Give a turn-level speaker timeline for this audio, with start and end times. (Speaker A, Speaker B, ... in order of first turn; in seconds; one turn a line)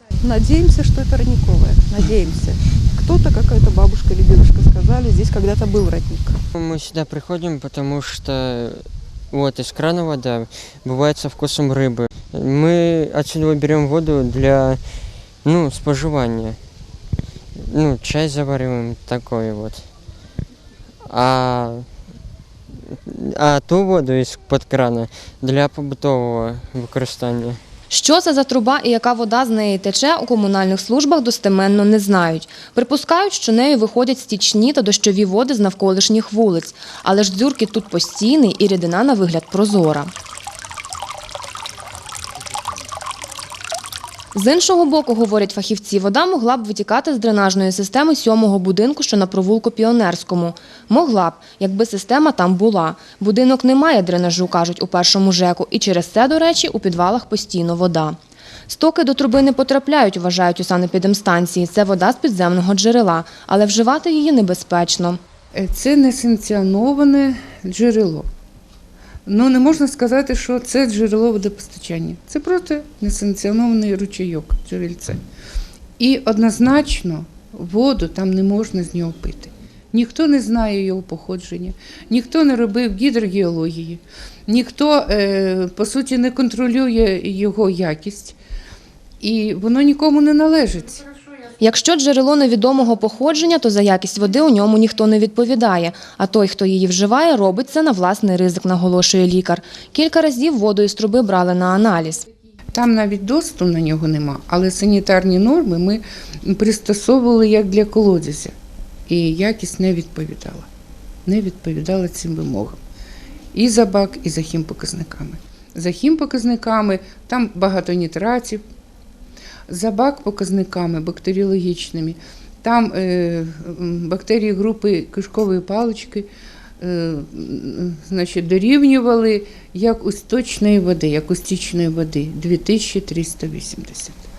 Speaker A: 0.2-6.4
Speaker B: 6.5-16.6
Speaker B: 17.5-19.9
Speaker B: 21.1-21.9
Speaker B: 22.8-27.6
Speaker C: 27.9-40.1
Speaker C: 44.3-65.2
Speaker D: 65.5-68.3
Speaker D: 69.2-75.2
Speaker D: 76.0-88.3
Speaker D: 89.2-91.0
Speaker C: 91.6-102.2
Speaker D: 102.7-108.5
Speaker D: 109.1-110.7
Speaker D: 111.2-112.8
Speaker D: 113.5-118.6
Speaker D: 119.7-126.3
Speaker D: 126.8-134.2